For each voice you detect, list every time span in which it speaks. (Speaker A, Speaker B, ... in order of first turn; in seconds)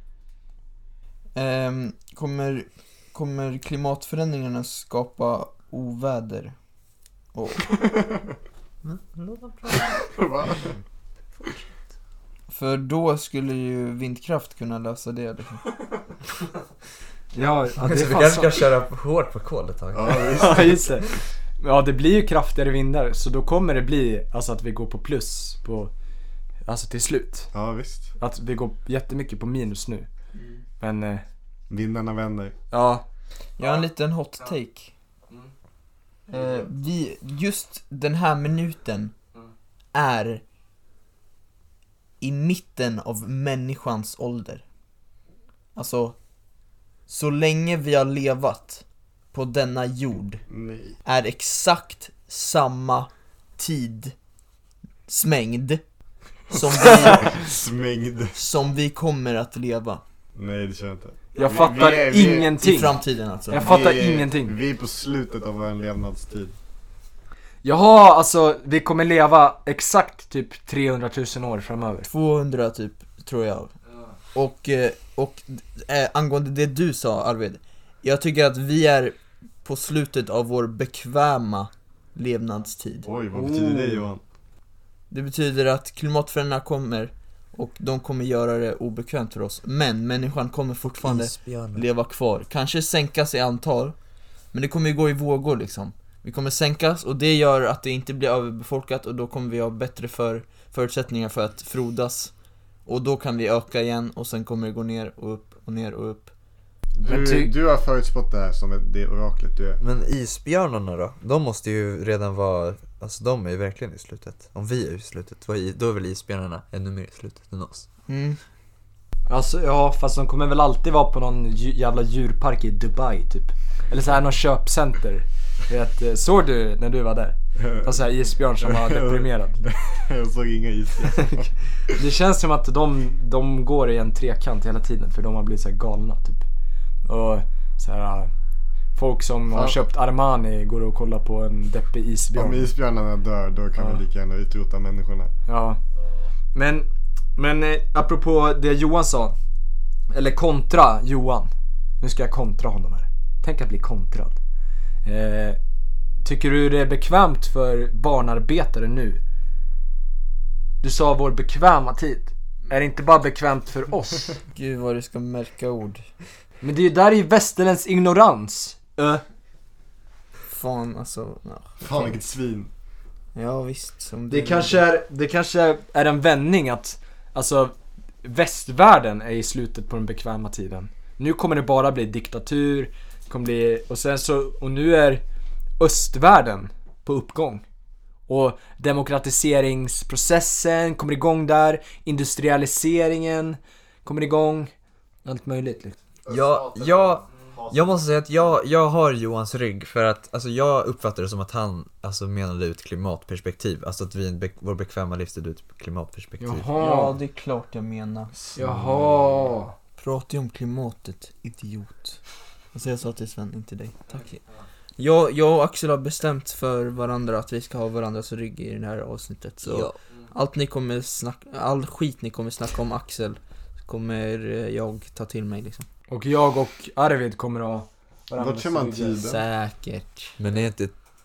Speaker A: 1.4-6.5, 7.3-7.7, 12.5-15.6, 33.6-34.9, 36.3-39.1, 39.9-40.4, 42.2-44.6, 45.8-46.2, 47.1-50.4, 51.0-54.1, 55.1-55.8, 56.5-57.4, 58.3-60.0, 62.2-63.9, 72.0-73.7, 74.3-83.1, 85.1-94.0, 94.5-102.3, 102.9-106.3, 118.1-118.4, 164.5-166.1, 170.5-172.1, 173.3-174.8, 206.8-208.3, 210.0-212.2, 212.7-214.4, 215.0-225.9, 229.2-230.4
Speaker B: 7.7-8.1, 9.9-10.7, 19.9-20.9, 27.5-28.1, 31.7-32.5, 50.5-51.0, 56.8-58.4, 60.4-62.5, 63.5-66.5, 83.0-84.2, 107.0-109.8, 127.6-128.0, 128.6-131.5, 139.5-139.8, 142.3-145.3, 171.8-172.7, 196.2-198.0, 208.7-209.0, 228.4-229.4
Speaker C: 8.8-9.9, 17.8-20.6, 90.9-91.8, 109.8-117.9, 196.3-206.7, 219.6-220.0, 230.4-230.9
Speaker D: 17.3-18.6, 20.4-25.9, 26.6-27.5, 28.2-30.1, 30.8-31.2, 32.7-33.0, 61.3-63.0, 63.5-64.5, 67.6-72.1, 83.3-84.1, 107.1-107.5, 119.3-129.7, 131.9-136.4, 137.1-138.3, 138.9-142.7, 145.5-145.8, 146.5-149.3, 150.1-154.4, 155.0-155.6, 156.2-159.2, 160.8-164.4, 166.6-169.2, 174.3-185.2, 185.8-187.6, 188.3-194.7, 195.2-196.0, 206.4-207.2, 208.6-209.7, 226.1-229.2